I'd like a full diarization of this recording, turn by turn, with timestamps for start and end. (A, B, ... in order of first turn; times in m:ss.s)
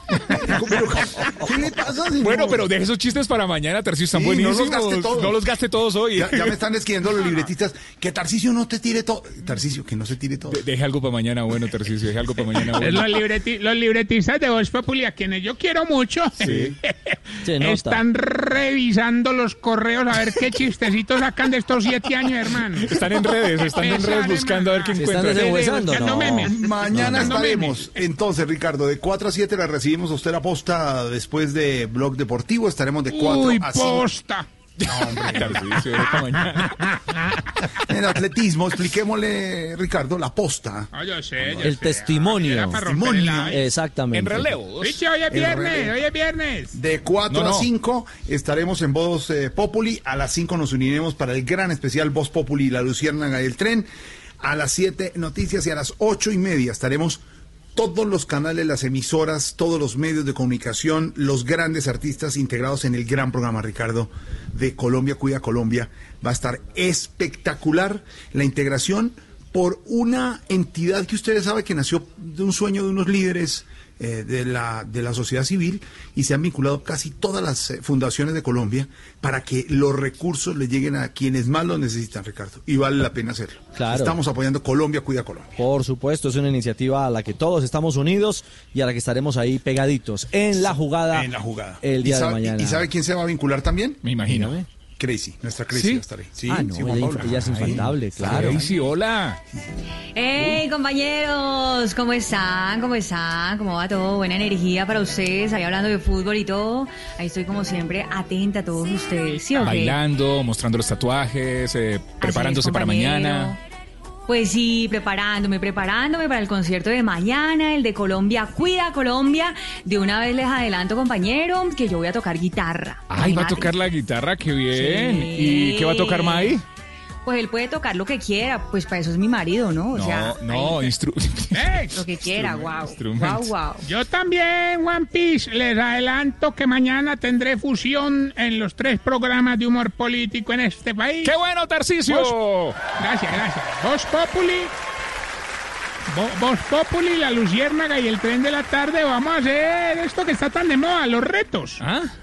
0:00.3-0:02.7 A
0:02.2-0:06.5 B
0:04.1-0:05.4 A
0:06.2-0:10.6 A
0:10.5-0:13.1 B
0:12.8-0:23.0 C
0:16.4-0:16.7 D
0:17.4-0:18.0 D
0:22.8-0:26.0 B
0:23.8-0:28.0 C
0:25.0-0:26.5 D
0:26.4-0:34.2 A
0:27.0-0:27.3 B
0:33.1-0:34.5 C
0:34.8-0:35.7 A
0:34.9-0:36.8 B
0:35.3-0:37.0 C
0:37.9-0:40.9 A
0:40.9-0:43.7 C
0:41.4-0:41.8 A
0:41.6-0:42.9 D
0:42.8-0:43.6 A
0:43.5-0:44.6 D
0:44.1-0:45.0 B
0:44.8-0:46.8 C
0:45.3-0:46.0 A
0:46.7-0:53.9 A
0:47.3-0:47.7 B
0:54.4-0:57.2 A
0:57.8-1:25.6 A
1:23.8-1:24.2 D
1:25.6-1:31.3 D
1:30.6-1:34.0 A
1:31.8-1:32.9 D
1:34.0-1:34.6 B
1:34.3-1:34.6 D
1:35.0-1:38.6 A
1:35.7-1:38.7 D
1:37.5-1:39.4 B
1:40.2-1:49.9 E
1:49.6-1:53.6 B
1:52.2-1:53.6 E
1:54.3-2:03.6 E
2:03.1-2:06.6 B
2:04.8-2:06.4 E
2:07.3-2:10.7 E
2:09.9-2:13.6 B
2:11.5-2:11.9 C
2:12.0-2:13.8 E
2:13.9-2:21.3 C
2:21.2-2:22.8 B
2:22.1-2:22.3 C
2:22.9-2:24.7 C
2:26.1-2:31.8 C